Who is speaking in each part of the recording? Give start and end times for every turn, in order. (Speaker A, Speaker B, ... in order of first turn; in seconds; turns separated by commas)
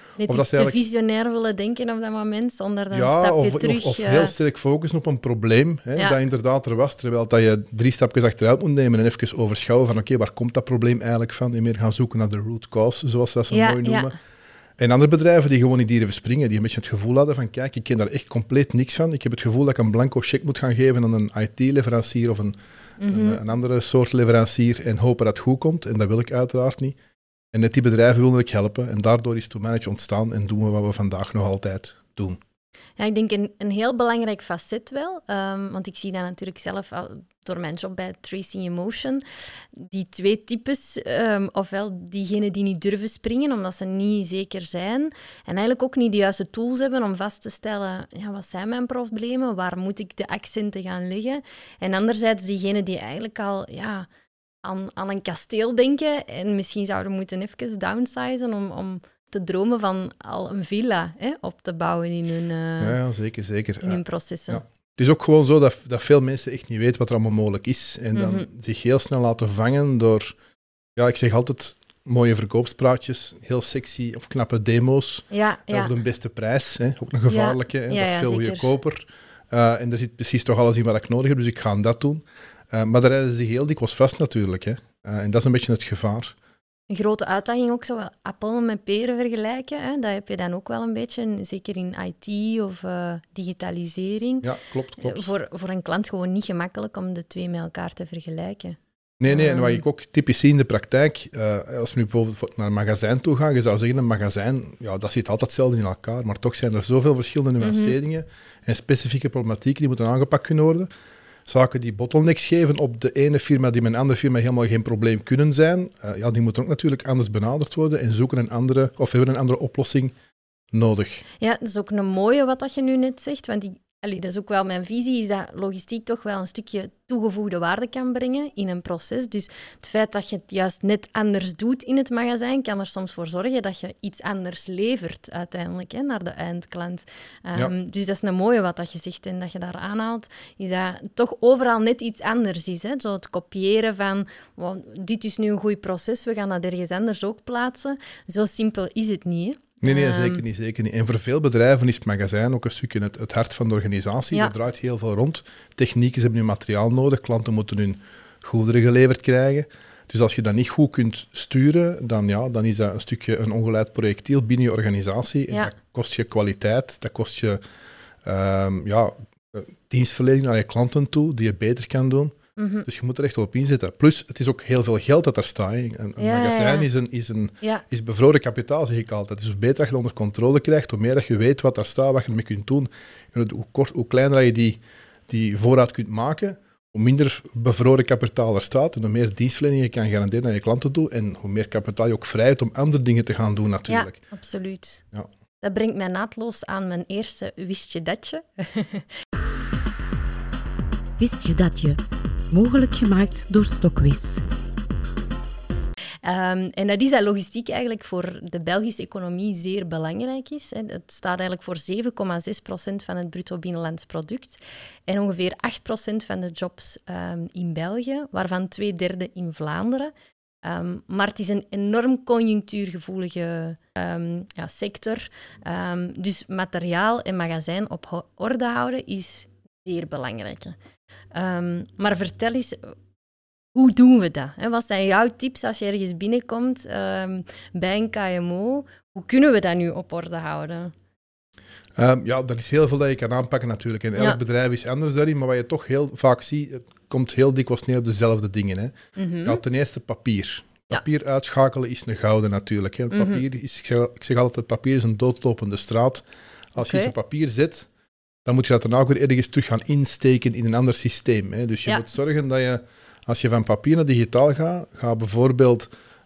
Speaker A: 0.2-4.3, Speaker B: 0.2-0.8, Speaker B: 2.9-14.1, Speaker A: 13.5-14.2, Speaker B: 14.8-27.0, Speaker A: 23.0-23.4, Speaker B: 27.5-32.4, Speaker A: 33.0-39.2, Speaker A: 39.8-54.1, Speaker A: 54.6-63.0, Speaker B: 62.8-70.3, Speaker A: 63.8-64.6, Speaker A: 68.1-68.5, Speaker B: 71.0-86.3, Speaker A: 75.3-75.9, Speaker A: 77.3-78.7, Speaker A: 86.9-94.5, Speaker B: 94.4-95.3, Speaker A: 95.0-99.8, Speaker B: 99.2-110.9, Speaker A: 107.6-108.0, Speaker B: 111.5-120.2, Speaker B: 120.7-121.2, Speaker A: 121.4-150.4, Speaker B: 149.8-167.6, Speaker B: 168.2-194.2, Speaker A: 172.6-172.9, Speaker A: 176.2-176.9, Speaker A: 193.9-195.0, Speaker A: 195.6-199.1, Speaker C: 201.2-204.4, Speaker A: 206.2-220.1, Speaker A: 220.6-230.8, Speaker A: 231.3-232.9, Speaker A: 233.8-240.9, Speaker B: 242.0-257.9, Speaker A: 249.2-249.6, Speaker A: 253.1-253.4, Speaker A: 256.8-257.1, Speaker B: 258.4-265.9